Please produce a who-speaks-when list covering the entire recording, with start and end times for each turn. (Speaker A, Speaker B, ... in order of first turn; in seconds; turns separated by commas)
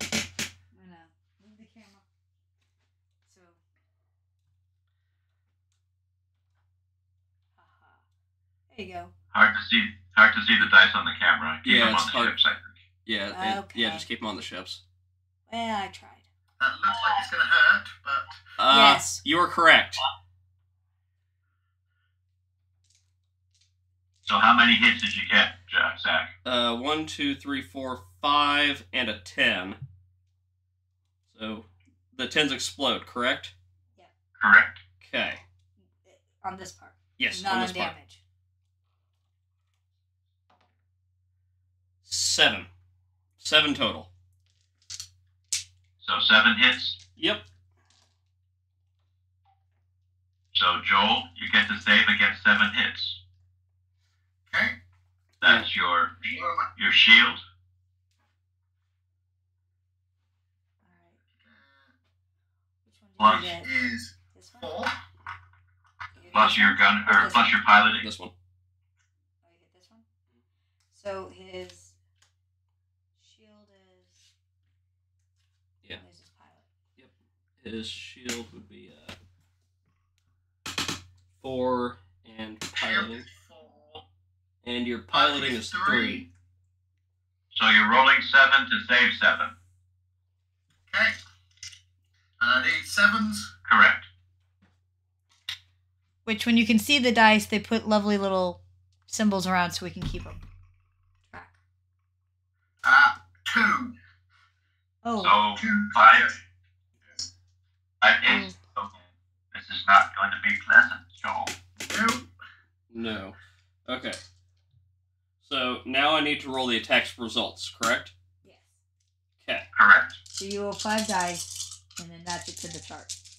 Speaker A: 0.7-2.0, Speaker A: 3.3-3.6, Speaker A: 7.6-8.0, Speaker A: 8.7-9.1, Speaker B: 9.3-12.7, Speaker C: 11.6-12.4, Speaker C: 13.0-14.8, Speaker A: 13.3-14.0, Speaker A: 15.5-16.2, Speaker D: 16.6-18.4, Speaker C: 18.6-20.0, Speaker A: 18.7-19.2, Speaker B: 24.2-26.3, Speaker C: 26.4-29.8, Speaker C: 31.3-33.5, Speaker B: 34.4-34.8, Speaker C: 35.0-35.4, Speaker A: 36.0-38.2, Speaker C: 37.2-37.9, Speaker C: 42.0-42.7, Speaker C: 43.4-44.1, Speaker B: 46.0-47.0, Speaker C: 47.2-47.4, Speaker B: 50.5-53.2, Speaker D: 54.5-54.8, Speaker B: 55.4-57.4, Speaker C: 55.4-55.7, Speaker D: 56.2-56.7, Speaker A: 60.8-61.2, Speaker D: 61.4-61.9, Speaker A: 62.8-63.7, Speaker D: 63.2-64.9, Speaker A: 64.3-64.7, Speaker A: 66.2-67.5, Speaker B: 66.3-68.1, Speaker C: 67.4-68.3, Speaker A: 69.4-70.0, Speaker A: 70.9-72.0, Speaker A: 73.2-74.3, Speaker A: 75.9-76.7, Speaker C: 77.0-79.2, Speaker C: 81.4-83.2, Speaker D: 82.7-84.0, Speaker C: 84.6-86.2, Speaker D: 85.1-86.3, Speaker B: 87.5-89.5, Speaker D: 90.9-91.2, Speaker D: 92.4-93.5, Speaker B: 93.7-94.1, Speaker A: 96.2-100.4, Speaker A: 101.3-101.6, Speaker D: 102.8-103.9, Speaker A: 105.0-105.3, Speaker B: 105.2-106.4, Speaker D: 105.5-106.3, Speaker B: 108.0-108.9, Speaker A: 108.2-108.5, Speaker B: 109.5-111.5, Speaker D: 111.8-112.3, Speaker C: 112.9-114.2, Speaker C: 115.4-118.1, Speaker A: 118.4-118.8, Speaker C: 119.4-119.7, Speaker B: 119.7-120.2, Speaker A: 120.3-123.1